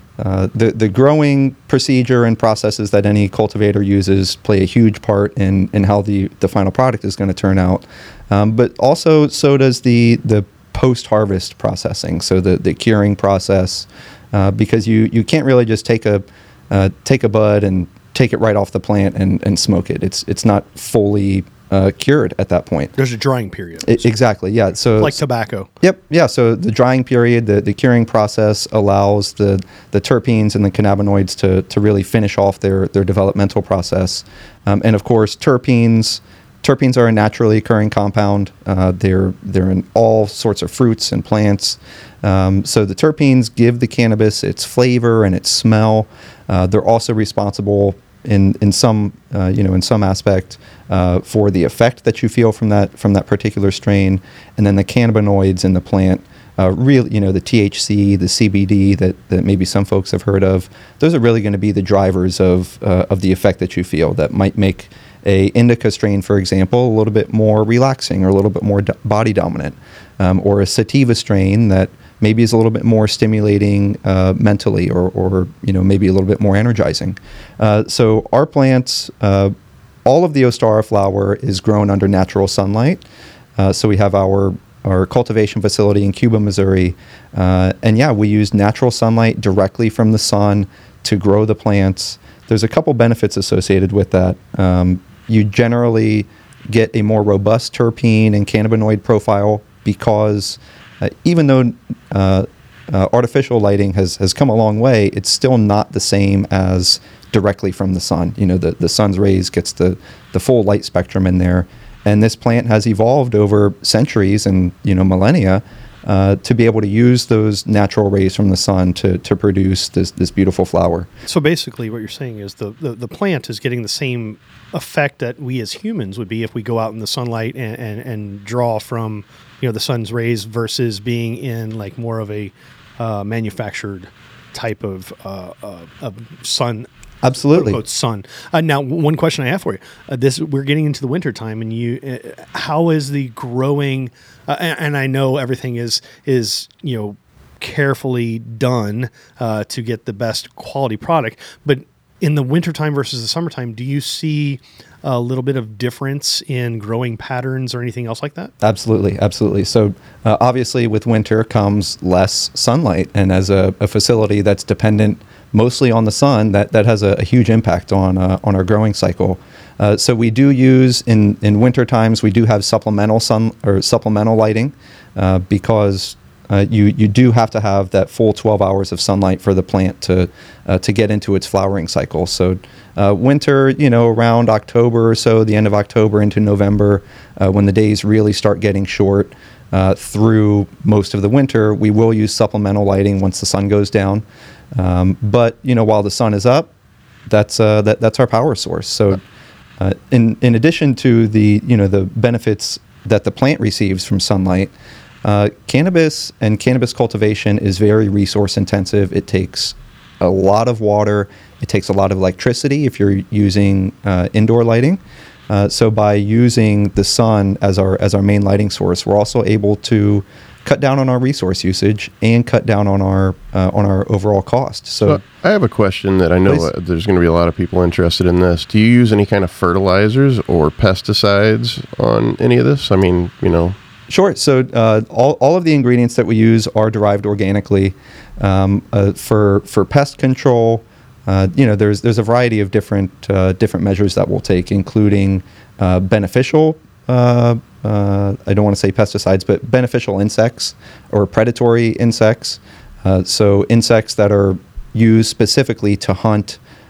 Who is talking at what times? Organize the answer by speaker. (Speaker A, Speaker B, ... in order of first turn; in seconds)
Speaker A: 0.2-22.9, 23.8-25.2, 25.8-79.5, 80.1-83.0, 83.6-121.1, 137.2-137.8, 158.6-194.2, 194.8-196.7, 197.3-199.2, 199.8-204.7, 205.2-225.2, 226.5-226.7, 234.1-256.6
Speaker B: 23.0-24.1, 25.0-25.7, 121.3-136.9, 137.6-158.5
Speaker C: 225.0-233.8